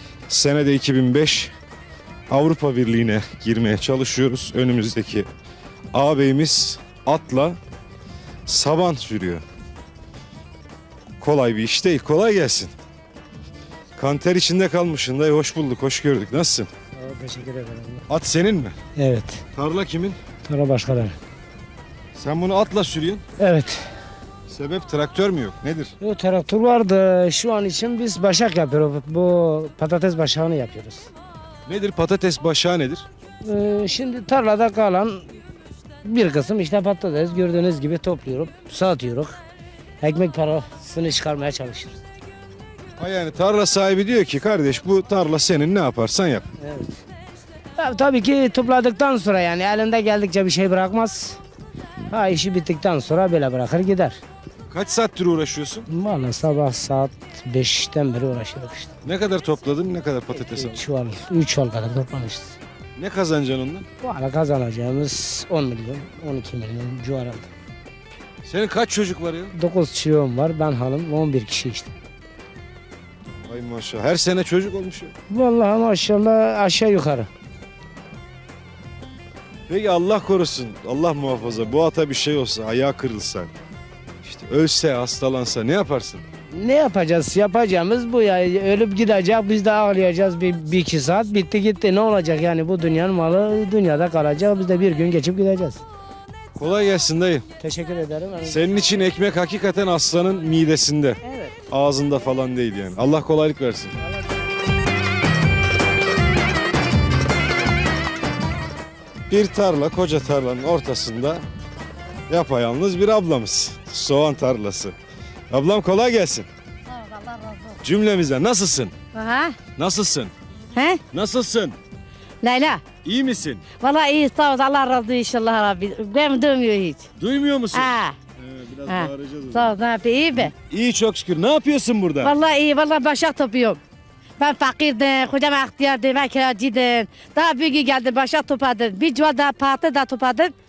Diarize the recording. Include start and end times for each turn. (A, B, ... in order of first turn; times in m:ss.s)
0:00.3-0:01.5 A
0:02.3-0:05.3 A
0:05.9-0:07.6 A
0:08.4-0:09.4 A
0:11.2-0:12.7 A
0:14.0-0:16.7 A
0:17.0-0:18.0 B
0:18.1-0:18.7 A
0:19.0-0:19.4 B
0:19.5-0:20.2 A
0:20.4-0:21.2 B
0:22.1-0:23.2 A
0:23.4-0:23.9 B
0:24.5-0:25.9 A
0:26.0-0:31.1 B
0:31.6-0:33.0 A
0:33.4-0:35.2 B
0:36.0-0:39.4 B
0:40.0-0:42.0 B
0:43.0-0:46.4 A
0:46.6-0:47.0 B
0:47.8-0:51.4 B
0:52.1-0:54.2 B
0:54.7-0:55.9 A
0:55.9-0:58.9 B
0:59.0-1:00.8 A
1:00.4-1:02.6 B
1:03.0-1:03.8 A
1:04.0-1:07.5 B
1:08.4-1:09.5 A
1:09.5-1:11.9 B
1:13.4-1:15.1 A
1:15.3-1:17.3 B
1:19.7-1:23.5 A
1:24.2-1:26.2 A
1:26.5-1:35.8 B
1:36.6-1:37.4 A
1:37.6-1:38.6 B
1:38.4-1:41.2 A
1:41.7-1:43.9 A
1:49.3-1:51.4 A
1:52.3-1:54.9 A
1:55.5-1:56.5 A
1:57.1-1:57.6 C
1:57.8-1:58.9 A
1:59.1-1:59.6 C
1:59.8-2:00.3 A
2:00.7-2:01.0 C
2:01.1-2:01.8 A
2:02.4-2:02.8 C
2:03.0-2:03.6 A
2:03.8-2:07.0 C
2:07.2-2:09.7 A
2:07.7-2:08.2 C
2:08.9-2:10.5 C
2:10.4-2:12.4 A
2:12.2-2:13.8 C
2:14.4-2:20.5 C